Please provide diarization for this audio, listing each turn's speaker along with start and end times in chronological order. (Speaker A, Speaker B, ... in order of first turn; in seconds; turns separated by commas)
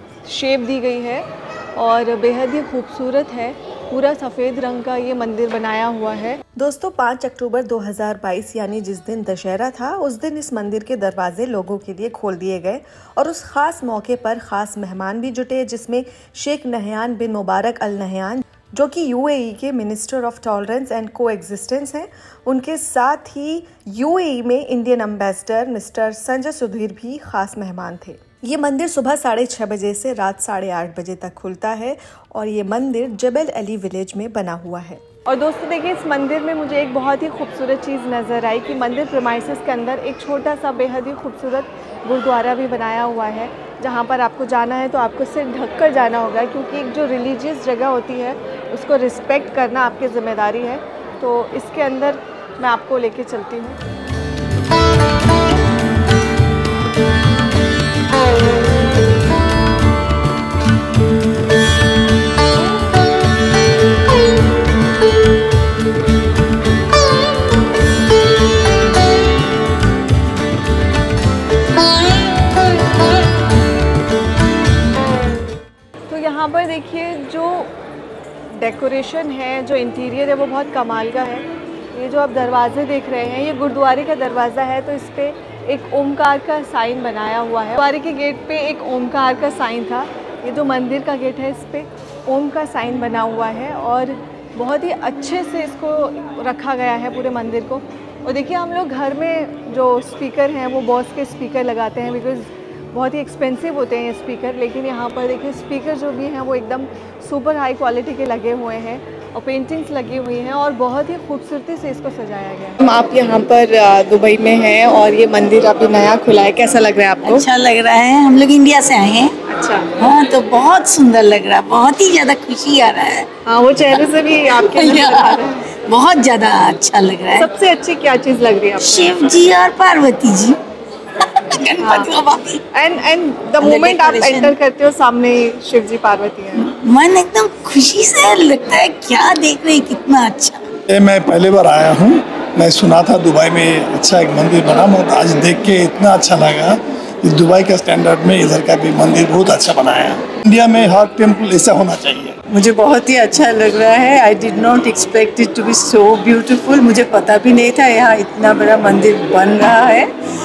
Speaker A: 0.2-53.8, Speaker A: 76.1-77.7, Speaker A: 78.5-117.5, Speaker B: 117.2-119.3, Speaker A: 119.5-119.9, Speaker B: 120.0-123.3, Speaker A: 123.4-125.7, Speaker B: 124.7-127.5, Speaker A: 127.3-129.2, Speaker B: 128.8-130.6, Speaker B: 131.6-132.6, Speaker A: 131.8-132.1, Speaker A: 132.7-136.7, Speaker B: 133.6-134.5, Speaker B: 136.7-140.6, Speaker C: 140.9-152.4, Speaker D: 152.5-160.1